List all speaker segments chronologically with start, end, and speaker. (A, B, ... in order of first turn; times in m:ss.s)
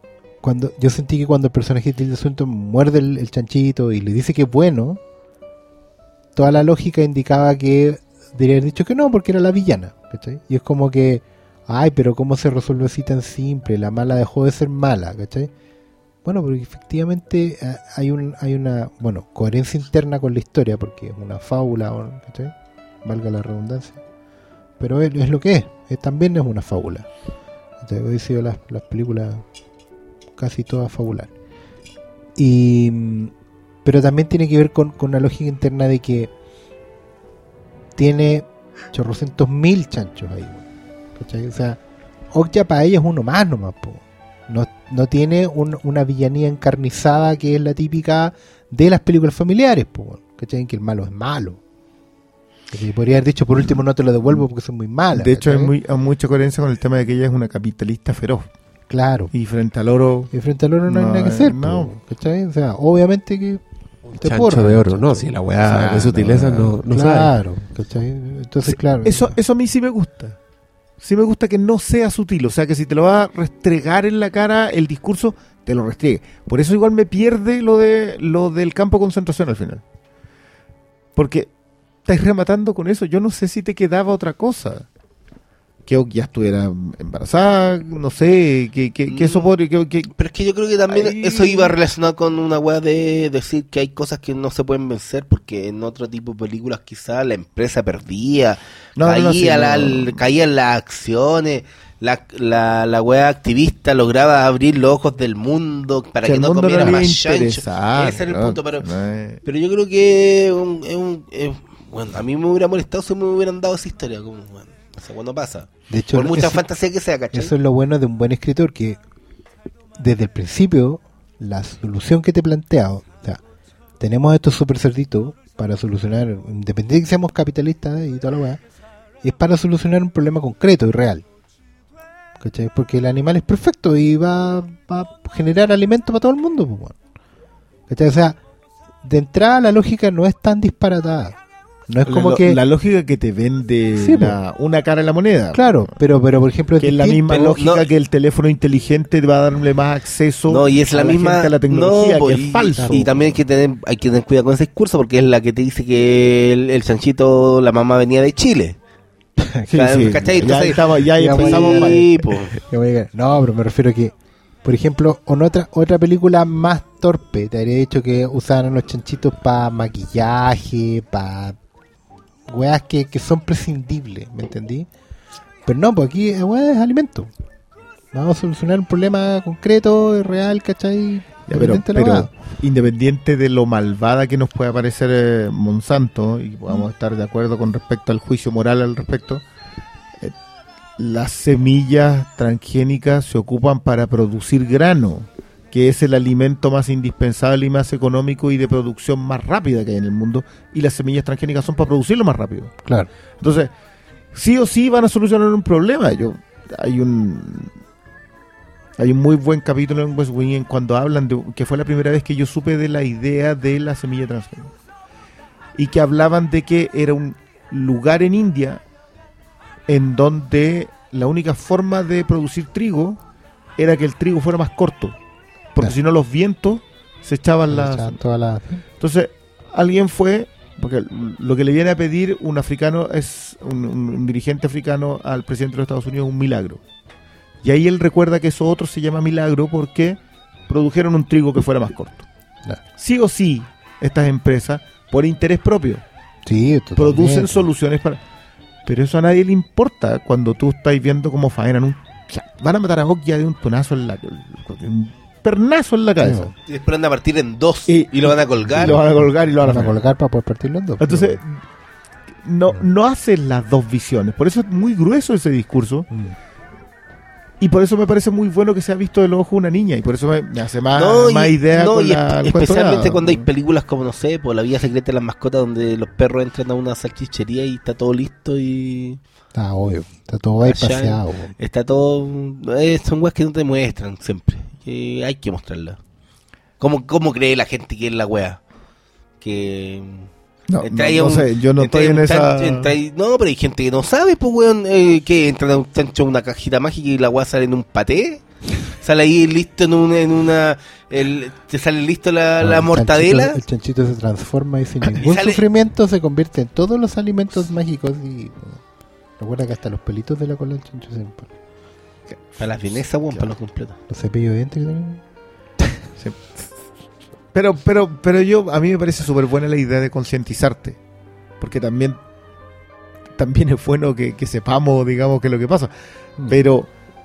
0:00.4-0:05.0 A
0:06.4-0:15.5 A
0:16.2-0:24.0 A
0:24.8-0:27.1 A
0:27.8-0:29.4 A
0:30.4-0:31.3 A
0:32.4-0:33.3 A
0:33.8-0:36.3 A
0:38.0-0:41.8 A
0:42.3-0:51.6 A
0:52.7-0:55.8 A
0:55.2-0:58.5 B
0:58.9-0:59.3 A
0:59.3-1:00.3 B
1:00.3-1:03.6 A
1:00.9-1:01.9 B
1:04.1-1:07.3 C
1:04.2-1:05.3 A
1:05.5-1:06.8 B
1:06.9-1:09.3 A
1:08.7-1:10.4 B
1:11.0-1:19.8 B
1:21.2-1:21.5 B
1:22.0-1:24.9 B
1:25.9-1:30.1 B
1:29.1-1:29.5 D
1:30.1-1:48.9 D
1:30.9-1:31.8 B
1:39.0-1:40.2 B
1:46.2-1:49.4 B
1:49.4-1:57.5 D
1:55.9-1:56.6 A
1:57.3-1:59.0 A
2:00.0-2:03.4 A
2:04.0-2:08.6 A
2:09.2-2:11.2 A
2:12.4-2:17.0 A
2:17.9-2:18.4 A
2:19.0-2:22.6 A
2:22.1-2:25.9 B
2:23.9-2:24.4 A
2:25.5-2:27.3 A
2:26.8-2:33.3 B
2:27.3-2:27.9 D
2:30.5-2:38.8 D
2:32.8-2:33.2 A
2:39.4-2:40.5 A
2:39.7-2:42.5 D
2:39.7-2:42.1 B
2:41.1-2:51.6 A
2:52.5-2:54.9 A
2:55.6-2:57.3 A
2:58.1-3:02.3 A
3:01.5-3:09.4 B
3:11.0-3:22.8 B
3:22.8-3:23.1 A
3:23.4-3:23.7 B
3:24.3-3:27.7 B
3:29.0-3:34.7 B
3:35.8-3:38.8 B
3:39.9-3:43.2 B
3:43.8-3:45.2 B
3:45.7-3:48.2 B
3:47.7-3:48.8 A
3:49.0-3:56.8 B
3:57.6-4:02.3 B
4:03.0-4:06.0 B
4:06.5-4:07.7 A
4:07.0-4:08.2 B
4:08.8-4:16.5 B
4:16.2-4:16.5 A
4:16.7-4:19.0 D
4:17.9-4:20.0 B
4:19.6-4:21.4 A
4:21.0-4:21.6 B
4:22.4-4:26.1 B
4:27.6-4:33.5 B
4:31.0-4:39.2 D
4:39.5-4:41.5 A
4:40.6-4:46.0 D
4:46.8-4:48.6 D
4:49.4-5:03.6 D
4:50.7-4:52.9 B
5:02.6-5:08.8 A
5:05.1-5:05.6 D
5:09.4-5:11.5 A
5:12.6-5:14.0 D
5:14.1-5:15.2 A
5:16.2-5:16.6 B
5:17.5-5:21.0 B
5:21.6-5:22.2 B
5:23.4-5:25.9 B
5:26.5-5:26.9 B